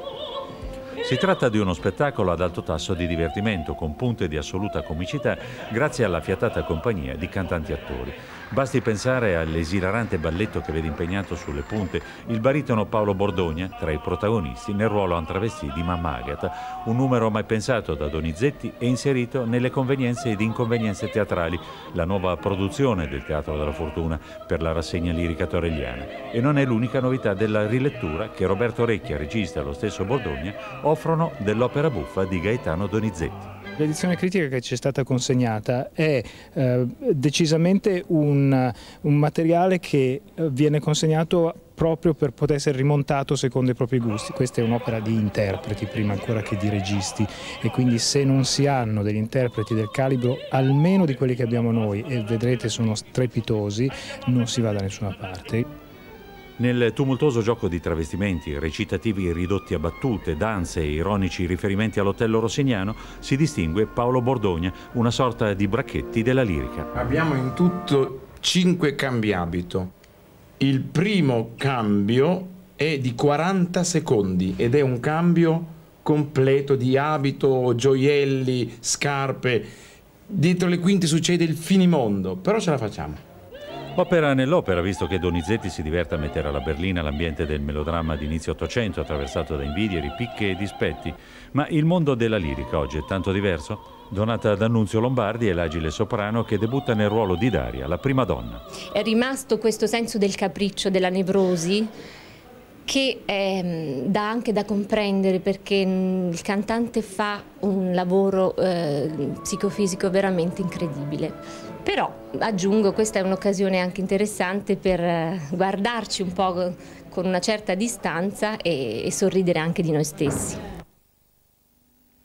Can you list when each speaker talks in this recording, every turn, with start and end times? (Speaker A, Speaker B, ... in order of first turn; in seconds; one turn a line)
Speaker A: 1.0-33.5
Speaker B: 33.8-55.7
Speaker A: 56.6-66.9
Speaker C: 66.9-69.9
Speaker C: 70.6-79.7
Speaker C: 80.3-83.2
Speaker A: 84.0-98.7
Speaker D: 98.9-100.2
Speaker D: 100.9-101.5
Speaker D: 102.9-120.6